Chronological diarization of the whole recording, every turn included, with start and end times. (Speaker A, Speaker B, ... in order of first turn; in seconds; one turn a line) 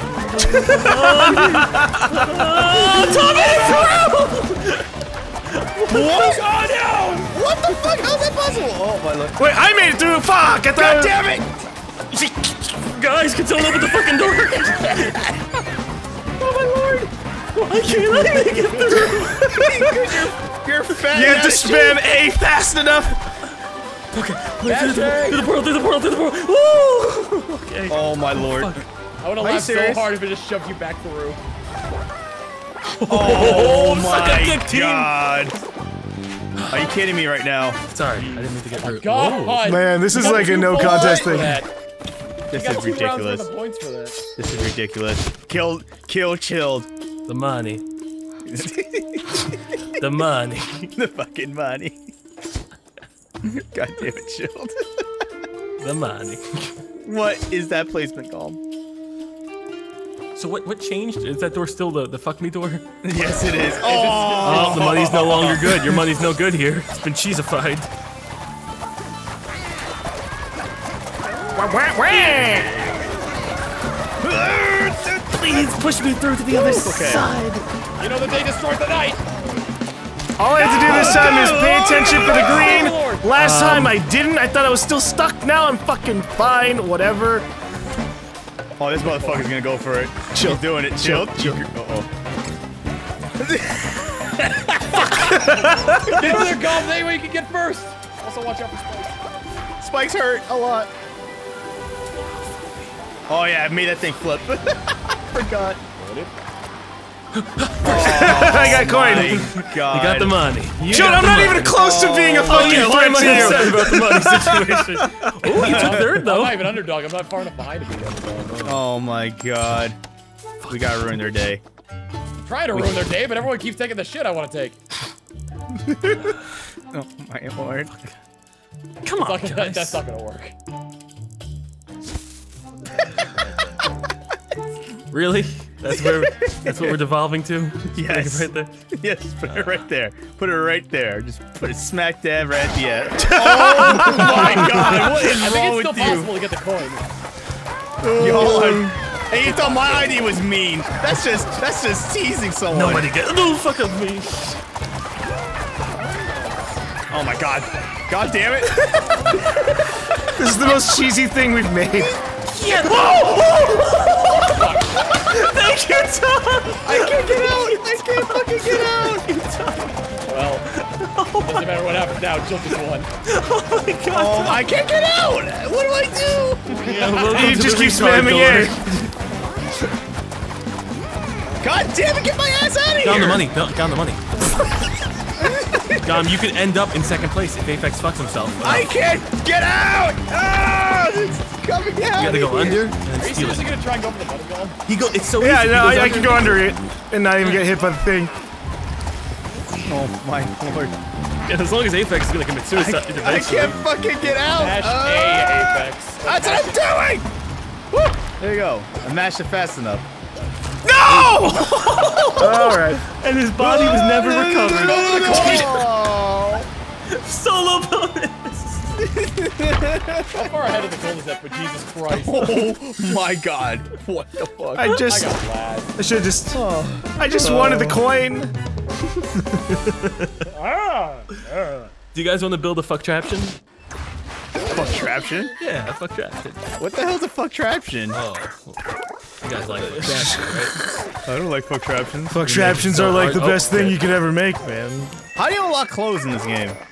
Speaker A: 0.3-4.9
Speaker B: 0.4-1.1
Speaker C: 0.7-2.5
Speaker B: 2.6-4.1
Speaker A: 5.5-6.5
Speaker B: 5.9-6.5
Speaker D: 6.3-7.4
Speaker B: 7.2-9.4
Speaker C: 9.4-11.2
Speaker B: 10.8-11.5
Speaker A: 12.2-15.2
Speaker B: 14.9-15.3
Speaker B: 16.4-17.1
Speaker A: 17.6-19.5
Speaker C: 18.0-19.9
Speaker B: 18.8-22.0
Speaker C: 21.1-23.2
Speaker A: 24.1-28.9
Speaker D: 24.6-25.5
Speaker B: 27.9-28.8
Speaker D: 29.2-31.4
Speaker B: 29.4-30.1
Speaker A: 33.0-35.1
Speaker B: 33.1-35.6
Speaker A: 36.6-36.9
Speaker B: 36.7-37.8
Speaker A: 37.9-39.7
Speaker D: 38.8-41.7
Speaker C: 39.6-41.6
Speaker B: 40.2-41.4
Speaker B: 42.5-43.5
Speaker D: 42.5-44.2
Speaker B: 44.4-46.9
Speaker A: 47.3-47.8
Speaker B: 48.4-49.5
Speaker A: 50.0-50.9
Speaker B: 51.0-52.0
Speaker B: 53.4-55.0
Speaker A: 55.8-56.8
Speaker B: 57.0-58.6
Speaker A: 60.4-62.9
Speaker B: 63.0-66.0
Speaker D: 63.8-64.8
Speaker A: 64.4-67.9
Speaker C: 71.5-72.7
Speaker B: 74.2-75.4
Speaker A: 75.3-77.6
Speaker B: 76.5-77.3
Speaker D: 78.0-79.2
Speaker C: 80.4-87.5
Speaker B: 80.6-82.9
Speaker D: 80.9-83.3
Speaker A: 83.3-84.0
Speaker B: 88.8-92.1
Speaker D: 89.0-89.5
Speaker C: 90.3-91.6
Speaker B: 93.4-95.3
Speaker C: 95.3-96.2
Speaker D: 95.3-99.2
Speaker B: 96.0-96.6
Speaker B: 99.8-100.9
Speaker B: 103.3-105.8
Speaker D: 105.9-106.3
Speaker A: 107.3-116.8
Speaker B: 107.8-110.4
Speaker C: 107.9-109.5
Speaker C: 110.9-115.3
Speaker B: 110.9-113.8
Speaker D: 115.5-118.8
Speaker B: 115.5-116.1
Speaker A: 118.5-118.8
Speaker B: 118.6-120.0
Speaker A: 120.6-120.9
Speaker B: 120.7-121.6
Speaker D: 122.4-124.8
Speaker C: 125.9-126.2
Speaker B: 126.9-128.0
Speaker A: 129.0-130.0
Speaker D: 129.2-130.5
Speaker D: 133.4-133.7
Speaker A: 135.1-138.7
Speaker B: 135.9-137.0
Speaker B: 137.9-146.3
Speaker C: 143.2-144.4
Speaker D: 144.1-147.1
Speaker C: 148.0-149.0
Speaker B: 148.2-153.1
Speaker D: 149.3-150.4
Speaker A: 152.7-154.6
Speaker B: 157.1-158.9
Speaker C: 160.3-162.2
Speaker A: 162.5-170.0
Speaker B: 162.9-163.4
Speaker D: 164.3-165.3
Speaker B: 166.8-169.3
Speaker D: 170.3-170.7
Speaker A: 170.7-171.8
Speaker D: 171.4-173.1
Speaker A: 173.2-174.6
Speaker B: 174.1-177.2
Speaker A: 176.8-179.1
Speaker C: 177.2-178.8
Speaker B: 181.6-183.5
Speaker A: 183.0-184.2
Speaker B: 185.4-186.3
Speaker A: 186.0-189.0
Speaker B: 188.6-192.9
Speaker A: 192.1-193.7
Speaker D: 193.2-194.8
Speaker A: 194.9-196.7
Speaker C: 195.4-198.3
Speaker B: 199.9-201.0
Speaker A: 201.5-203.8
Speaker B: 202.7-207.3
Speaker D: 204.5-206.8
Speaker B: 207.9-210.1
Speaker C: 210.9-211.8
Speaker A: 211.0-215.9
Speaker B: 211.1-211.9
Speaker C: 212.3-213.0
Speaker B: 213.6-216.7
Speaker D: 214.7-215.8
Speaker A: 217.1-219.0
Speaker B: 219.0-220.5
Speaker D: 220.3-222.7
Speaker B: 222.1-224.9
Speaker C: 224.8-225.4
Speaker D: 225.0-226.0
Speaker C: 226.0-226.6
Speaker B: 226.5-228.1
Speaker C: 227.2-228.5
Speaker A: 229.7-230.4
Speaker D: 230.5-231.8
Speaker A: 232.1-233.6
Speaker B: 234.7-235.5
Speaker A: 235.6-236.6
Speaker B: 236.8-238.2
Speaker A: 238.1-238.8
Speaker A: 239.4-240.7
Speaker B: 239.9-240.3
Speaker C: 240.1-240.7
Speaker B: 241.2-242.4
Speaker C: 242.3-245.2
Speaker A: 242.4-244.2
Speaker B: 245.3-246.8